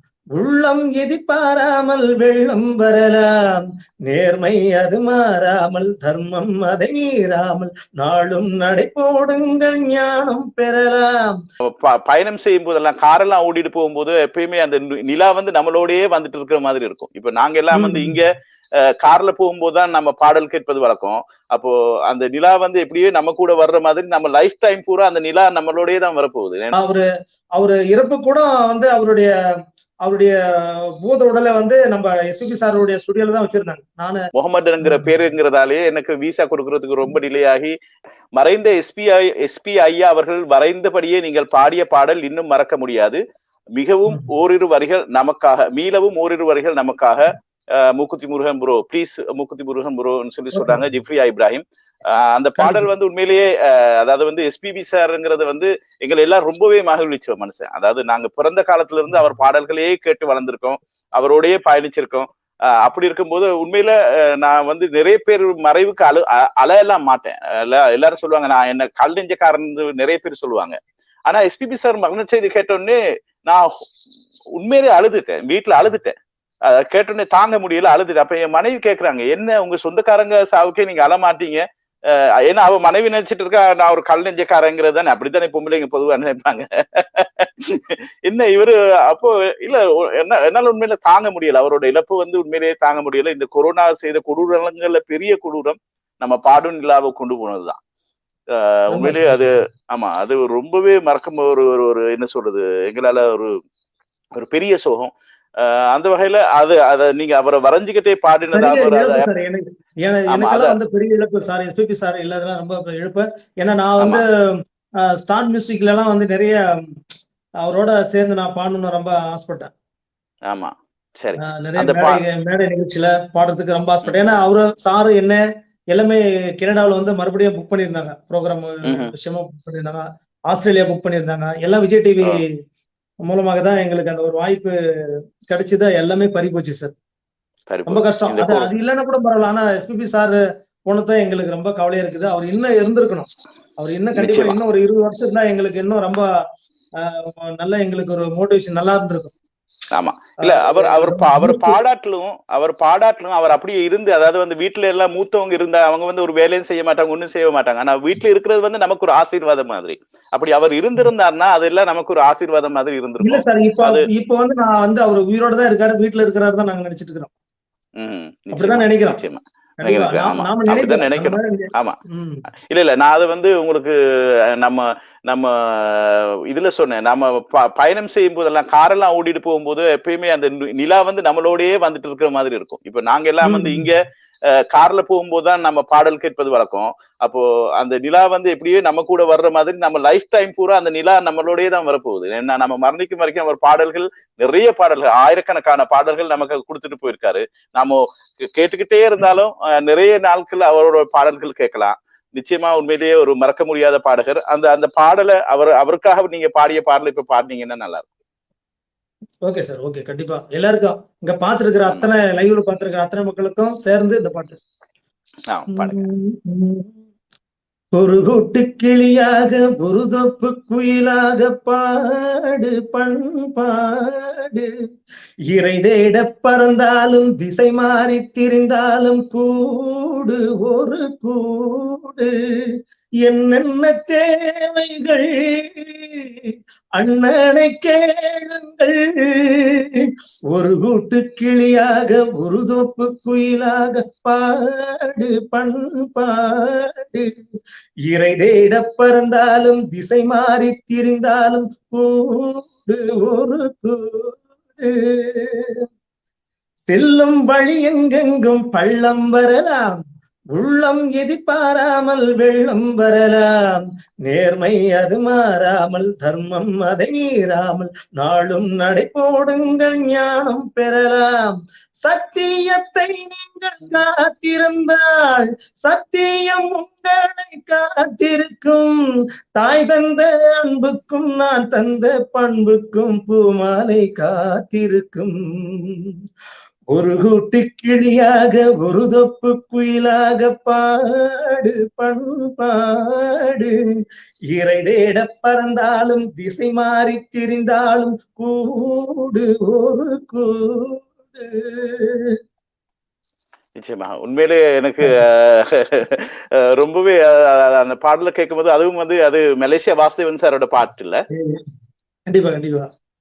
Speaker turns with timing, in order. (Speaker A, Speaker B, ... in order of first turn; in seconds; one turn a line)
Speaker A: 0.4-11.4
Speaker B: 11.6-18.3
Speaker A: 17.7-18.2
Speaker B: 19.0-26.7
Speaker A: 26.8-27.1
Speaker A: 27.6-29.3
Speaker A: 30.0-30.3
Speaker A: 31.0-34.2
Speaker B: 34.4-37.7
Speaker A: 34.8-35.1
Speaker B: 38.4-43.2
Speaker B: 43.8-47.2
Speaker B: 47.8-62.3
Speaker A: 50.5-50.8
Speaker A: 52.6-52.9
Speaker B: 62.8-70.8
Speaker B: 71.3-73.7
Speaker B: 74.6-76.1
Speaker B: 76.7-97.8
Speaker B: 98.5-103.5
Speaker A: 98.9-99.5
Speaker B: 104.3-109.3
Speaker A: 108.5-114.2
Speaker B: 110.3-110.8
Speaker A: 115.2-116.6
Speaker A: 117.6-119.7
Speaker B: 120.5-122.2
Speaker A: 121.4-125.4
Speaker A: 125.9-132.4
Speaker B: 128.8-129.1
Speaker A: 133.2-134.7
Speaker A: 135.5-136.9
Speaker B: 137.7-138.7
Speaker A: 137.9-146.2
Speaker B: 144.2-144.6
Speaker A: 147.0-149.3
Speaker B: 149.9-164.0
Speaker A: 150.4-151.8
Speaker A: 163.2-167.3
Speaker B: 168.0-172.0
Speaker A: 168.5-169.2
Speaker A: 169.8-172.4
Speaker B: 172.7-173.9
Speaker B: 174.6-184.0
Speaker A: 183.4-183.9
Speaker B: 184.7-208.1
Speaker A: 209.4-214.6
Speaker B: 215.5-216.0
Speaker A: 215.8-216.9
Speaker A: 217.9-224.7
Speaker A: 225.5-232.3
Speaker A: 233.2-236.3
Speaker A: 237.0-247.3
Speaker A: 248.1-255.8
Speaker A: 256.9-260.0
Speaker A: 260.5-278.9
Speaker A: 279.6-286.1
Speaker A: 286.9-293.7
Speaker A: 294.5-302.4
Speaker B: 303.8-311.2
Speaker A: 311.3-311.6
Speaker A: 312.3-312.9